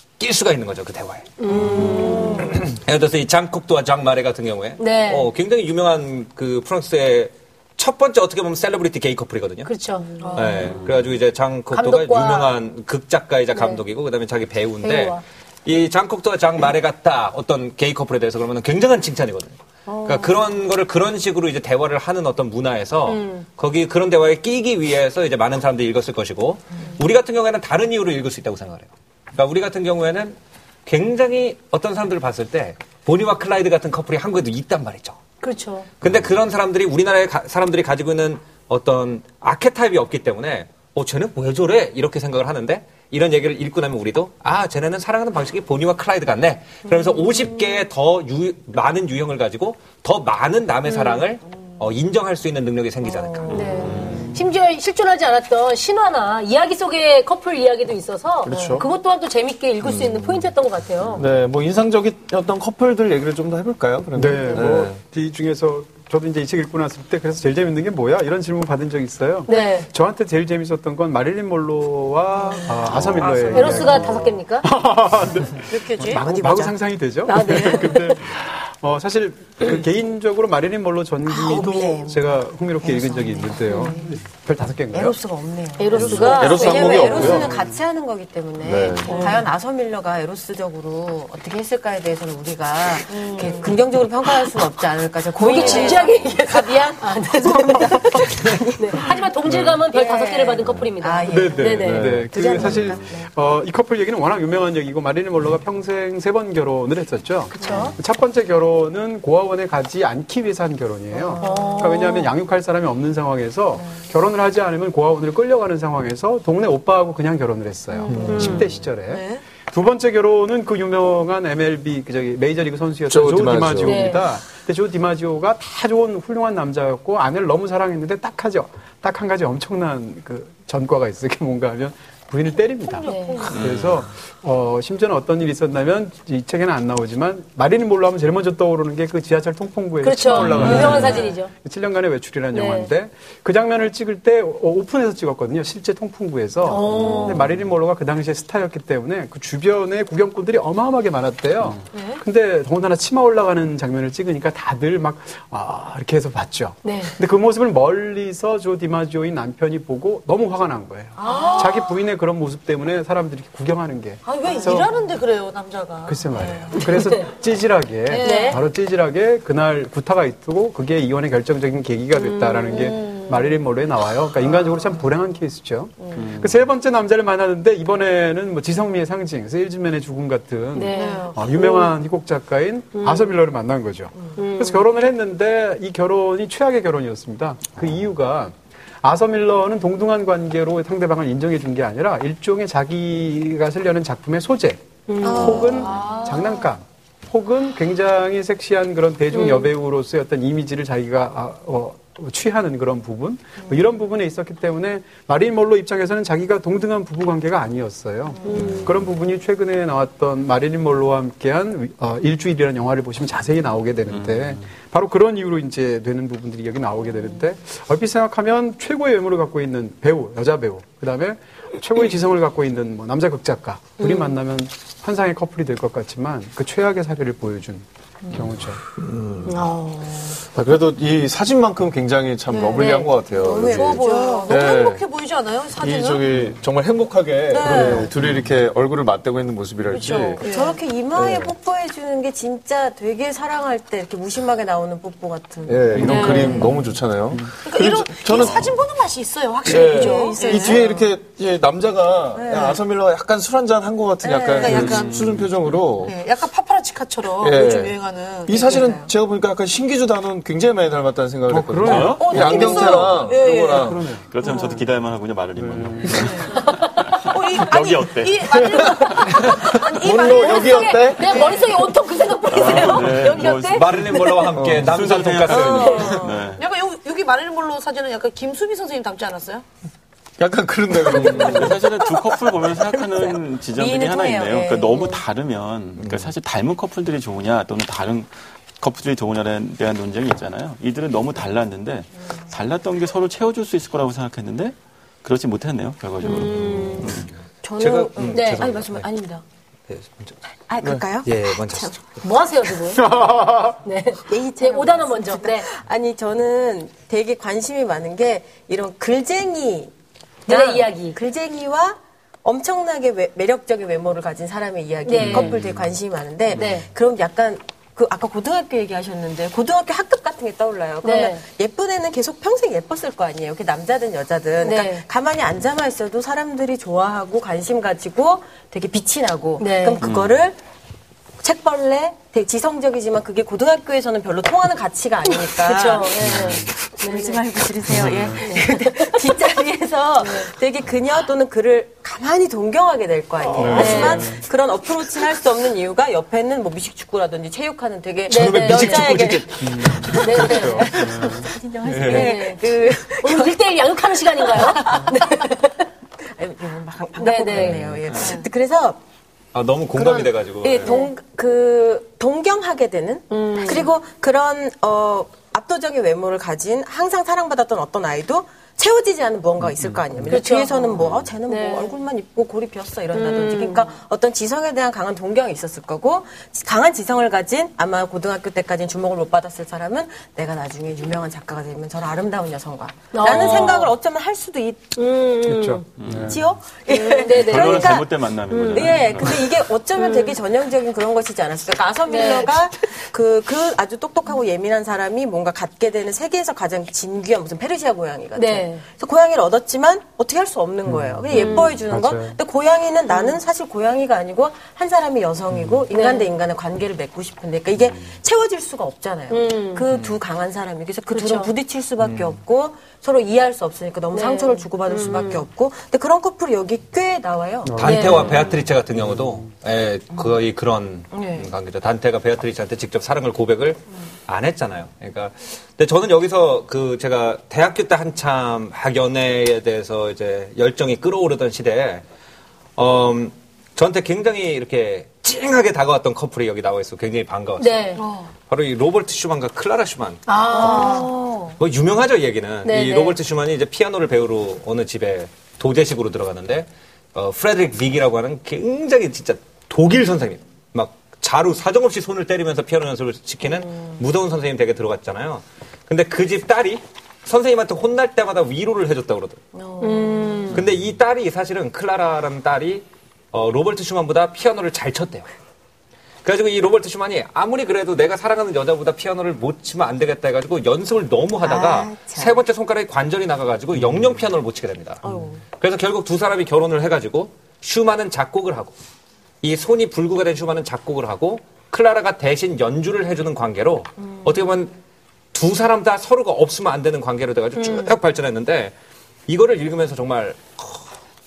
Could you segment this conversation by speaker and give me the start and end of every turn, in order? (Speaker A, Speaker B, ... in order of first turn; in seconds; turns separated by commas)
Speaker A: 0.2-1.3, Speaker B: 1.4-2.5, Speaker C: 1.5-2.5, Speaker D: 1.7-2.5, Speaker A: 2.4-9.7, Speaker B: 4.8-5.3, Speaker B: 9.7-10.7, Speaker D: 10.2-10.7, Speaker A: 10.3-35.2, Speaker B: 11.7-12.5, Speaker B: 13.5-13.8, Speaker B: 14.8-15.2, Speaker B: 23.1-23.4, Speaker B: 35.4-35.9, Speaker A: 36.0-53.6, Speaker C: 53.0-53.5, Speaker E: 53.5-54.3, Speaker B: 53.5-61.3, Speaker F: 58.5-58.9, Speaker F: 61.2-65.0, Speaker G: 64.2-85.2, Speaker B: 69.5-69.9, Speaker D: 73.2-73.9, Speaker B: 73.5-74.7, Speaker D: 75.7-76.4, Speaker C: 76.0-76.8, Speaker B: 77.3-78.2, Speaker C: 81.3-82.2, Speaker C: 82.8-84.1, Speaker C: 84.9-99.3, Speaker B: 85.8-87.4, Speaker F: 85.9-87.5, Speaker G: 87.2-87.8, Speaker F: 88.6-89.2, Speaker D: 89.1-89.4, Speaker B: 89.1-89.4, Speaker D: 93.1-93.8, Speaker B: 95.4-102.1, Speaker D: 95.5-96.2, Speaker G: 99.5-99.8, Speaker C: 99.9-103.3, Speaker G: 101.3-165.0, Speaker F: 101.8-102.3, Speaker B: 107.6-107.9, Speaker C: 107.6-107.9, Speaker C: 111.1-111.7, Speaker B: 111.4-112.3, Speaker D: 111.4-111.9, Speaker D: 118.1-119.4, Speaker F: 118.2-118.5, Speaker B: 118.2-118.7, Speaker F: 123.1-124.0, Speaker B: 123.8-124.3, Speaker D: 132.6-133.7, Speaker B: 133.1-133.4, Speaker E: 133.5-134.1, Speaker B: 140.0-141.5, Speaker E: 140.4-140.9, Speaker D: 140.6-141.3, Speaker B: 142.5-142.9, Speaker B: 146.7-147.5, Speaker D: 151.9-152.2, Speaker B: 156.8-157.1, Speaker D: 161.2-162.0, Speaker B: 161.3-161.7, Speaker D: 164.2-167.1, Speaker G: 166.1-228.8, Speaker B: 166.8-167.2, Speaker D: 168.1-168.6, Speaker B: 168.2-168.6, Speaker B: 172.2-172.9, Speaker D: 172.7-173.6, Speaker E: 176.2-176.7, Speaker B: 180.7-181.6, Speaker D: 180.9-181.9, Speaker B: 182.9-183.4, Speaker B: 184.4-184.8, Speaker B: 195.1-196.1, Speaker C: 195.2-196.1, Speaker D: 195.4-196.7, Speaker B: 199.3-199.7, Speaker B: 208.4-209.0, Speaker E: 214.1-214.6, Speaker B: 224.0-224.3, Speaker F: 229.0-229.5, Speaker B: 229.4-230.4, Speaker F: 230.5-235.0, Speaker D: 232.5-236.3, Speaker B: 232.8-233.1, Speaker C: 233.4-234.5, Speaker F: 235.8-240.4, Speaker D: 237.5-238.1, Speaker C: 237.6-238.1, Speaker D: 239.9-240.8, Speaker C: 240.4-246.6, Speaker F: 241.1-241.5, Speaker F: 245.7-248.8, Speaker G: 245.9-246.7, Speaker B: 246.0-246.7, Speaker D: 247.6-250.9, Speaker F: 249.7-256.1, Speaker C: 249.8-251.1, Speaker C: 252.4-252.8, Speaker C: 254.2-254.8, Speaker D: 254.6-255.2, Speaker E: 255.1-255.5, Speaker D: 256.0-258.9, Speaker F: 257.4-264.1, Speaker C: 258.6-259.1, Speaker G: 261.5-263.1, Speaker E: 261.8-262.7, Speaker D: 262.0-264.8, Speaker G: 263.7-264.8, Speaker E: 264.2-269.5, Speaker G: 265.6-266.3, Speaker D: 266.1-266.6, Speaker D: 267.3-271.9, Speaker F: 268.6-271.6, Speaker B: 270.1-274.3, Speaker E: 272.5-276.6, Speaker D: 272.6-273.4, Speaker A: 273.7-276.3, Speaker F: 274.6-274.9, Speaker D: 275.5-279.6, Speaker C: 275.7-276.5, Speaker F: 280.4-281.9, Speaker E: 281.1-297.3, Speaker C: 283.1-285.2, Speaker F: 286.0-286.3, Speaker B: 296.2-297.2, Speaker C: 297.6-299.4, Speaker A: 297.8-299.1, Speaker B: 298.3-298.6, Speaker A: 299.9-300.4, Speaker C: 300.7-302.0, Speaker A: 301.2-302.1, Speaker B: 302.2-303.1, Speaker G: 303.0-303.8, Speaker B: 303.9-305.7, Speaker C: 304.3-309.9, Speaker B: 310.5-311.2, Speaker C: 310.5-330.6, Speaker B: 315.0-315.6, Speaker B: 316.5-316.9, Speaker B: 321.0-321.4, Speaker B: 324.6-325.1, Speaker B: 329.6-330.0, Speaker E: 330.0-330.4, Speaker C: 331.4-355.7, Speaker B: 335.4-337.4, Speaker G: 336.2-336.7, Speaker G: 337.9-338.4, Speaker B: 338.0-339.3, Speaker B: 340.2-340.5, Speaker G: 343.6-344.4, Speaker B: 343.7-344.3, Speaker B: 348.3-349.2, Speaker A: 348.3-350.5, Speaker G: 349.6-351.5, Speaker B: 350.1-351.0, Speaker B: 352.0-355.7, Speaker C: 356.3-359.0, Speaker B: 357.2-357.8, Speaker A: 359.5-361.0, Speaker C: 359.9-384.9, Speaker B: 360.8-361.1, Speaker B: 363.3-363.9, Speaker G: 369.8-370.4, Speaker B: 370.3-371.9, Speaker B: 373.1-373.9, Speaker B: 383.1-383.9, Speaker B: 385.0-385.8, Speaker G: 385.4-386.4, Speaker E: 385.9-386.4, Speaker C: 386.2-418.3, Speaker B: 386.9-389.1, Speaker E: 387.3-389.6, Speaker B: 390.0-390.4, Speaker B: 392.1-392.5, Speaker B: 398.4-398.8, Speaker G: 400.9-402.4, Speaker B: 401.3-401.7, Speaker B: 403.1-403.4, Speaker G: 405.5-405.8, Speaker B: 405.9-406.3, Speaker B: 409.3-409.9, Speaker B: 411.1-411.5, Speaker B: 414.1-415.4, Speaker G: 417.7-418.3, Speaker A: 417.8-432.1, Speaker B: 417.8-418.5, Speaker C: 421.1-421.5, Speaker A: 432.8-437.9, Speaker B: 437.6-438.0, Speaker D: 438.0-438.3, Speaker A: 438.5-441.0, Speaker B: 440.3-441.1, Speaker C: 440.5-441.6, Speaker A: 441.6-459.4, Speaker B: 442.6-443.2, Speaker C: 459.6-460.6, Speaker B: 459.8-460.6, Speaker A: 460.5-465.3, Speaker A: 466.2-475.0, Speaker C: 471.4-472.4, Speaker C: 475.0-475.4, Speaker A: 475.6-478.8, Speaker A: 479.4-484.7, Speaker A: 485.3-488.7, Speaker B: 487.6-487.9, Speaker A: 489.3-490.9